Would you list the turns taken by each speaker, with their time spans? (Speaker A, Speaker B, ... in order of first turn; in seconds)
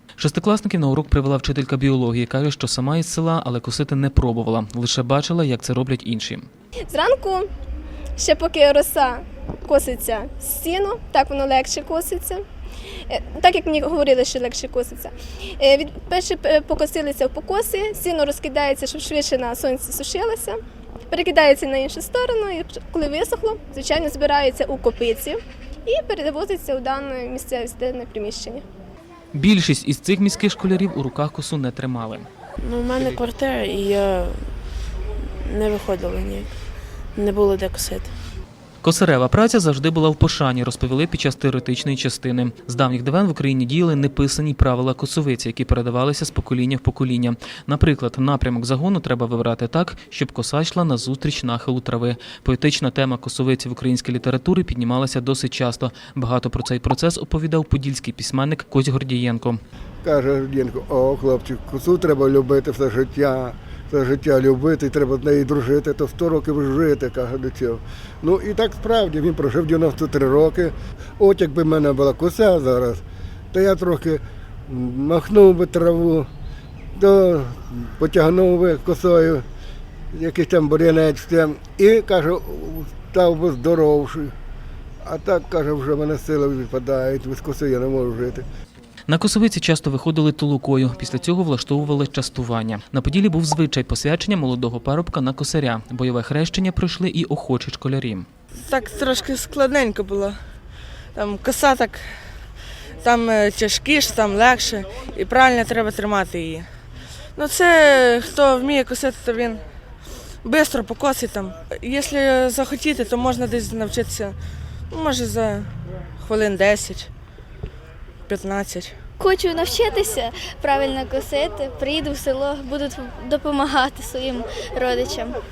Speaker A: 0.2-6.5, 29.3-32.3, 38.8-59.6, 89.1-98.3
Speaker B: 6.9-7.5, 8.2-12.4, 13.1-20.6, 21.1-28.6
Speaker C: 32.6-34.4, 35.5-36.5, 37.2-38.1
Speaker D: 60.0-73.0, 73.5-76.3, 76.9-79.5, 80.1-84.3, 85.0-88.5
Speaker E: 98.5-100.4, 101.1-102.2, 103.0-106.7, 107.3-109.6, 110.4-114.4, 114.9-117.1, 118.3-119.0
Speaker F: 119.2-125.4